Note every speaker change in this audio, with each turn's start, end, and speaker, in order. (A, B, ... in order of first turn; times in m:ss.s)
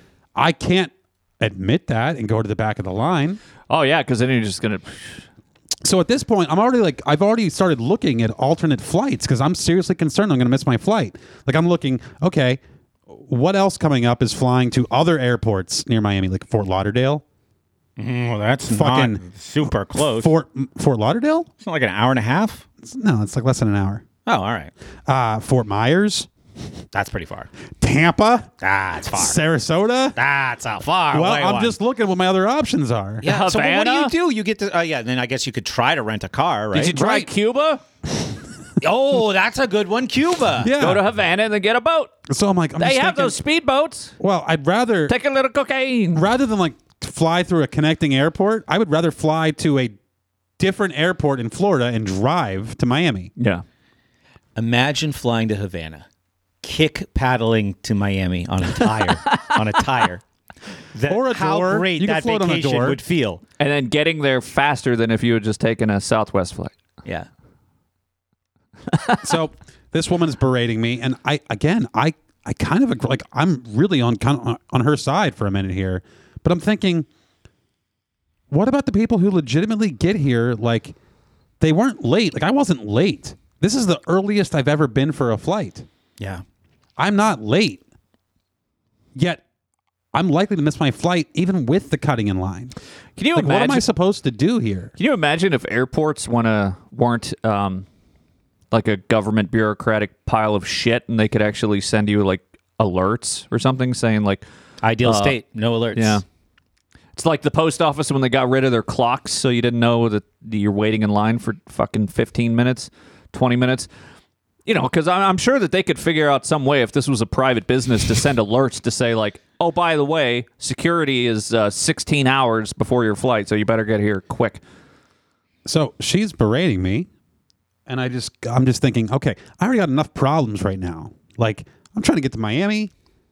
0:00.4-0:03.4 A
0:03.7-0:05.2 B
0:05.8-0:17.2 A
0:18.0-0:20.3 C
0:18.7-0:19.2 A
0:20.0-0:21.5 A
0:21.6-0:22.6 C
0:22.8-0:24.0 A
0:24.2-0:24.7 C
0:25.1-0:26.3 A
0:26.9-0:27.5 C
0:27.8-0:28.5 A
0:28.6-0:29.4 C
0:29.1-0:30.2 A
0:30.2-0:31.7 C
0:31.1-0:33.2 A
0:33.2-0:37.0 C
0:33.2-0:34.1 B
0:36.7-0:37.8 B
0:36.9-0:37.3 A
0:38.8-0:40.7 C
0:40.6-0:41.0 A
0:40.8-0:42.1 B
0:42.3-0:43.4 A
0:42.8-0:44.1 B
0:44.2-0:45.1 A
0:45.1-0:46.2 B
0:46.1-0:50.0 A
0:50.6-0:53.3 A
0:53.4-0:53.6 B
0:54.6-0:56.0 C
0:56.6-1:00.2 C
1:00.9-1:03.4 C
1:01.1-1:03.0 A
1:03.6-1:06.7 B
1:08.9-1:09.2 B
1:09.2-1:17.1 A
1:18.5-1:20.9 A
1:21.6-1:25.8 A
1:27.0-1:27.8 A
1:29.1-1:29.4 A
1:30.1-1:32.7 A
1:33.2-1:33.8 B
1:33.3-1:34.9 A
1:35.0-1:37.8 B
1:38.7-1:44.4 B
1:44.8-1:46.2 C
1:45.0-1:45.4 B
1:45.9-1:46.2 B
1:47.2-1:53.9 B
1:54.6-2:04.6 B
2:05.6-2:07.1 A
2:07.9-2:12.9 A